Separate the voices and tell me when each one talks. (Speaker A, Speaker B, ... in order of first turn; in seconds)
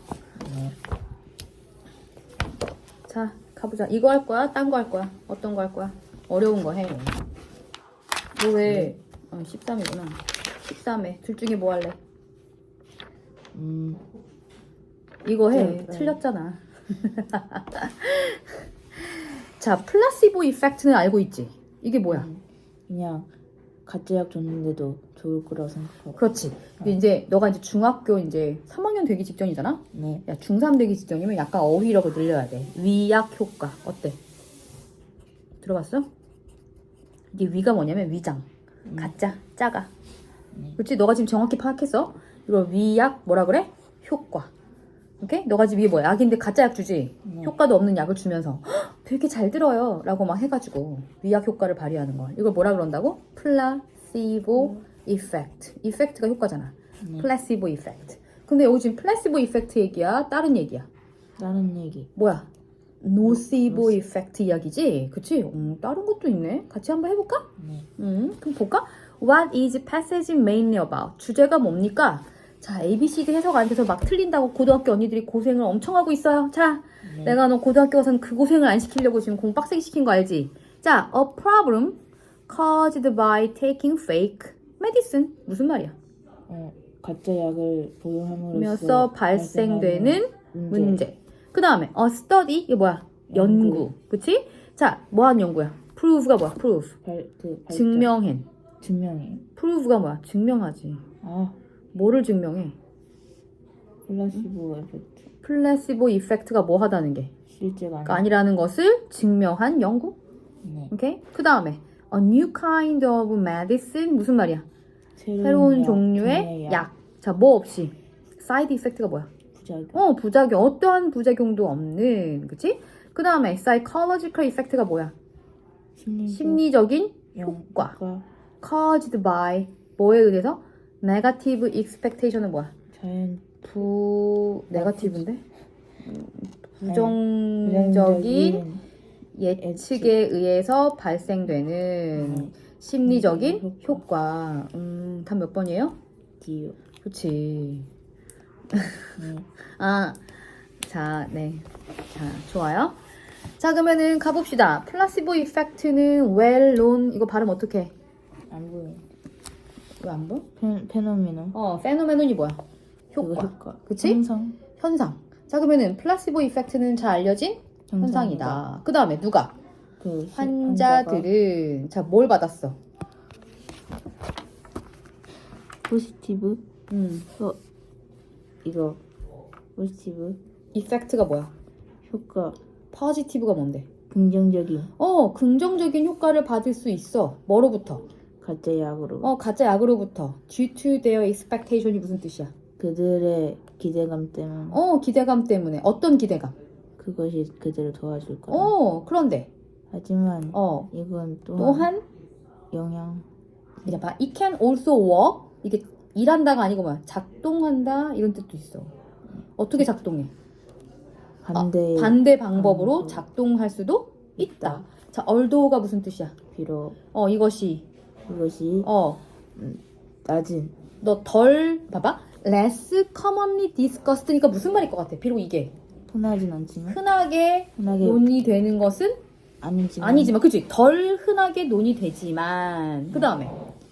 Speaker A: 0.4-0.8, 8.6-8.9, 13.5-14.0, 15.5-16.2, 22.1-23.3, 23.9-26.2, 29.9-30.2, 38.9-39.1, 40.5-40.8, 47.2-47.5, 57.0-57.3, 61.4-62.1, 63.2-64.0, 67.6-67.9, 77.0-77.4, 86.5-91.0, 93.3-93.9, 97.0-98.1, 98.8-99.4, 101.2-101.5, 104.0-105.2, 107.5-108.2, 110.6-110.9, 115.2-116.9, 119.5-120.0, 126.0-126.6, 127.3-128.2, 132.9-133.7, 134.7-135.3, 136.8-138.8, 139.6-140.1, 142.2-144.0, 146.4-146.8, 149.2-149.5, 158.5-159.0, 160.6-161.6, 163.2-164.6, 167.9-168.6, 170.0-171.3, 175.8-176.6, 178.6-179.0, 179.8-180.4, 182.0-182.6, 184.1-184.9, 188.4-189.3, 192.8-194.8, 197.0-198.7, 199.9-201.9, 202.7-203.2, 211.4-213.2, 214.4-214.8, 216.5-217.0, 218.2-218.9, 219.5-220.7, 226.1-227.0, 227.8-228.3, 229.6-230.4
Speaker B: 3.1-7.2, 8.3-12.0, 15.2-22.3, 26.1-34.2, 35.6-36.1, 37.3-39.9, 40.8-44.5, 45.2-60.9, 62.1-62.5, 63.0-85.9, 88.5-96.9, 97.7-98.5, 99.5-101.0, 101.9-102.8, 105.4-107.3, 108.0-110.2, 110.9-114.7, 115.4-119.3, 119.9-125.1, 126.3-128.0, 128.6-132.7, 133.7-135.4, 136.0-138.6, 139.3-145.9, 147.0-147.9, 148.7-150.2, 150.8-153.0, 153.6-157.9, 160.0-160.4, 161.5-162.6, 163.1-164.2, 164.8-169.5, 170.3-172.8, 176.9-177.3, 180.7-181.5, 182.9-183.9, 185.0-188.1, 189.2-192.5, 194.7-196.5, 198.5-199.5, 200.5-200.9, 201.6-202.0, 203.8-208.9, 209.6-210.3, 211.5-216.3, 217.1-217.9, 218.8-219.2, 221.0-225.7, 226.9-229.2, 230.0-233.5